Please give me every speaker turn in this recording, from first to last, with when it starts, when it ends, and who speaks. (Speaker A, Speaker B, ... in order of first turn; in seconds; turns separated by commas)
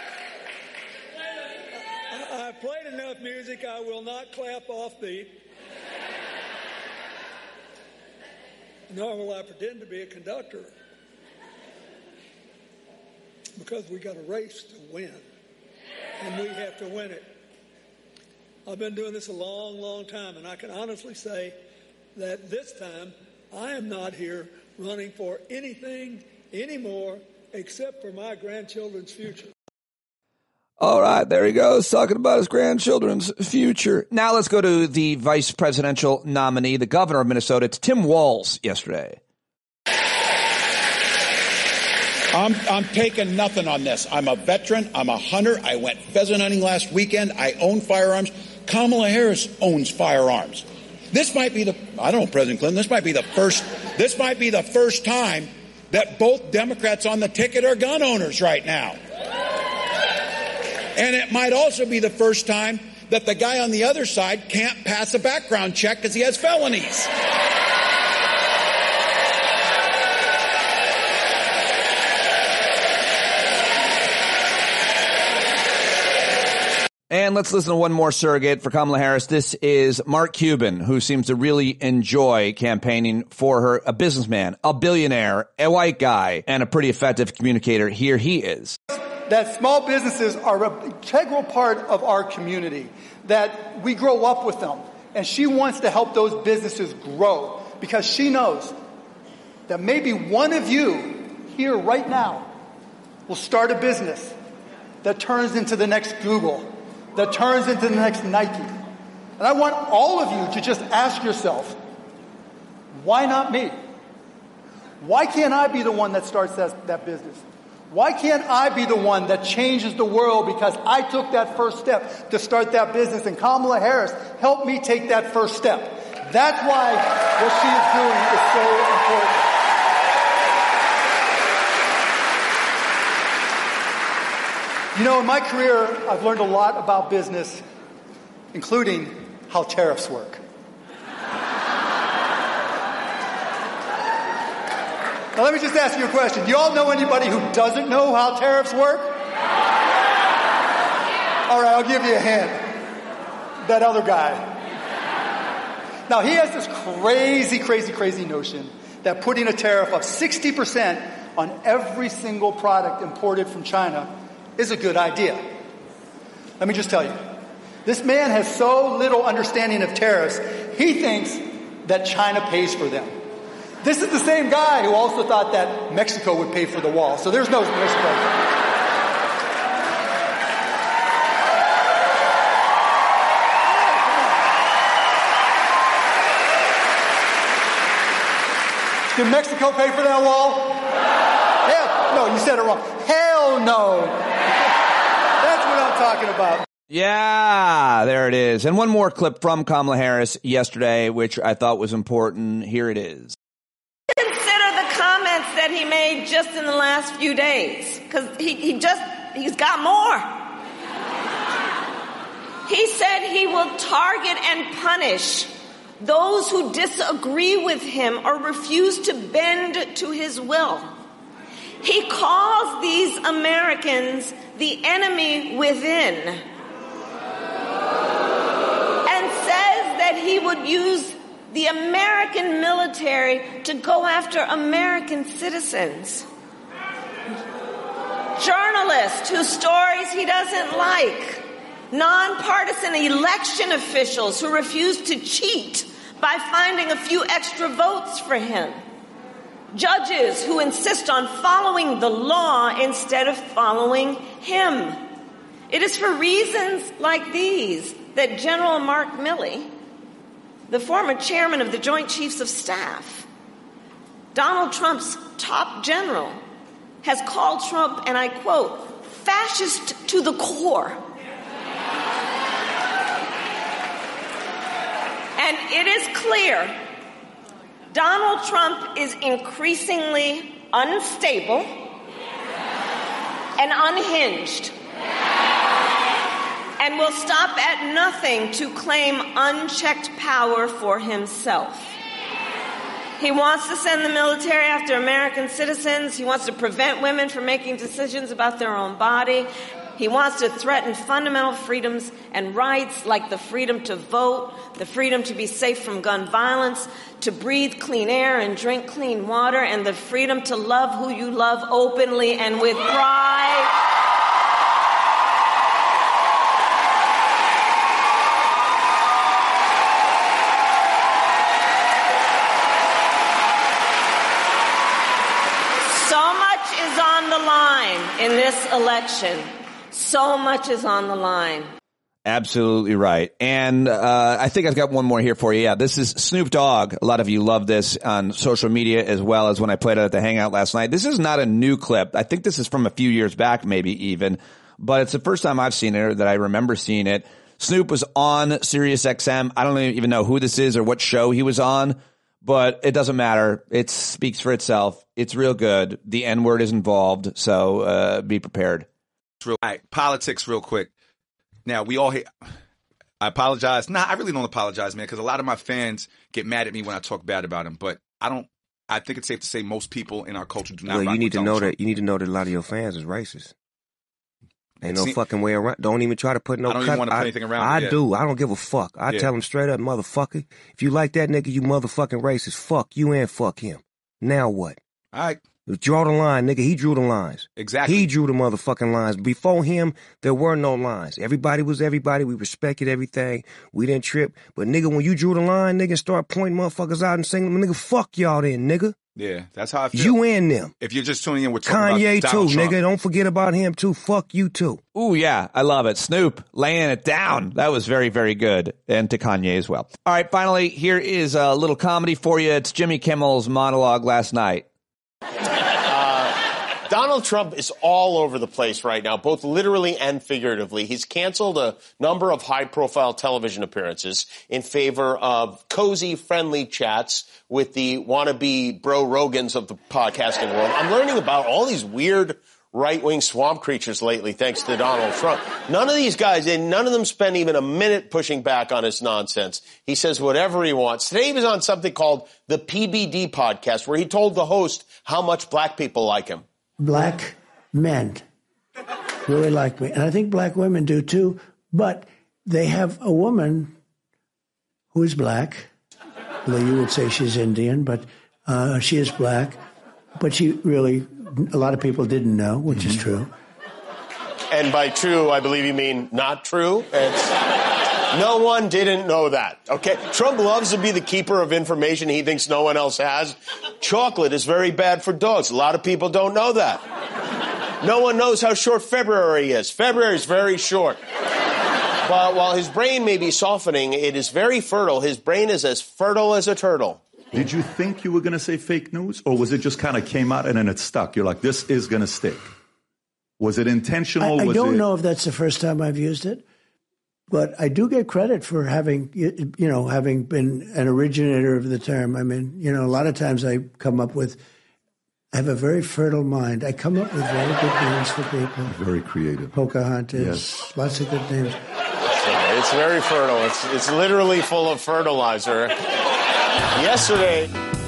Speaker A: 1.9-5.4, Speaker A: 8.9-10.7, Speaker A: 13.6-15.2, Speaker A: 16.2-17.3, Speaker A: 18.7-21.6, Speaker A: 22.2-29.5, Speaker B: 30.8-39.2, Speaker C: 42.3-59.0, Speaker C: 61.0-67.1, Speaker B: 77.1-88.8, Speaker D: 88.9-98.8, Speaker D: 99.7-102.5, Speaker D: 103.3-104.4, Speaker D: 105.0-108.8, Speaker D: 109.4-111.8, Speaker D: 113.0-113.8, Speaker D: 115.0-129.5, Speaker D: 134.9-137.6, Speaker D: 138.5-140.4, Speaker D: 145.3-149.2, Speaker D: 151.5-152.8, Speaker D: 153.7-154.6, Speaker D: 156.1-165.4, Speaker D: 166.6-173.2, Speaker D: 173.8-178.4, Speaker D: 189.1-190.9, Speaker D: 191.7-194.4, Speaker D: 195.4-196.7, Speaker B: 196.9-203.3, Speaker E: 204.1-210.5, Speaker E: 212.7-220.9, Speaker E: 221.8-226.4, Speaker E: 229.1-236.3, Speaker E: 238.4-248.8, Speaker E: 249.7-255.0, Speaker E: 255.7-259.7, Speaker E: 260.7-263.3, Speaker E: 264.3-266.4, Speaker E: 267.0-271.0, Speaker E: 275.4-276.8, Speaker E: 277.9-281.7, Speaker E: 283.6-284.8, Speaker E: 286.8-291.9, Speaker E: 293.2-313.7, Speaker E: 325.9-331.7, Speaker B: 332.2-358.9, Speaker F: 359.4-360.9, Speaker F: 361.7-362.5, Speaker F: 363.2-371.7, Speaker G: 370.9-373.5, Speaker G: 374.8-384.8, Speaker F: 374.9-375.2, Speaker F: 376.6-378.0, Speaker F: 379.1-379.3, Speaker F: 385.1-385.4, Speaker G: 385.7-399.0, Speaker F: 387.6-388.1, Speaker F: 399.2-400.2, Speaker G: 399.9-400.7, Speaker F: 400.8-402.8, Speaker G: 401.6-404.8, Speaker B: 404.9-414.7, Speaker H: 415.8-446.4, Speaker I: 446.8-448.2, Speaker I: 449.3-453.8, Speaker I: 454.9-455.7, Speaker I: 456.5-459.6, Speaker I: 460.2-463.3, Speaker J: 462.7-463.0, Speaker H: 464.5-467.4, Speaker H: 468.1-476.8, Speaker H: 477.8-481.0, Speaker H: 482.1-487.0, Speaker J: 487.3-492.5, Speaker J: 493.4-494.9, Speaker I: 494.2-496.4, Speaker I: 497.3-504.4, Speaker I: 505.3-511.6, Speaker J: 508.6-509.6, Speaker J: 510.1-510.6, Speaker H: 512.2-515.8, Speaker H: 516.8-517.5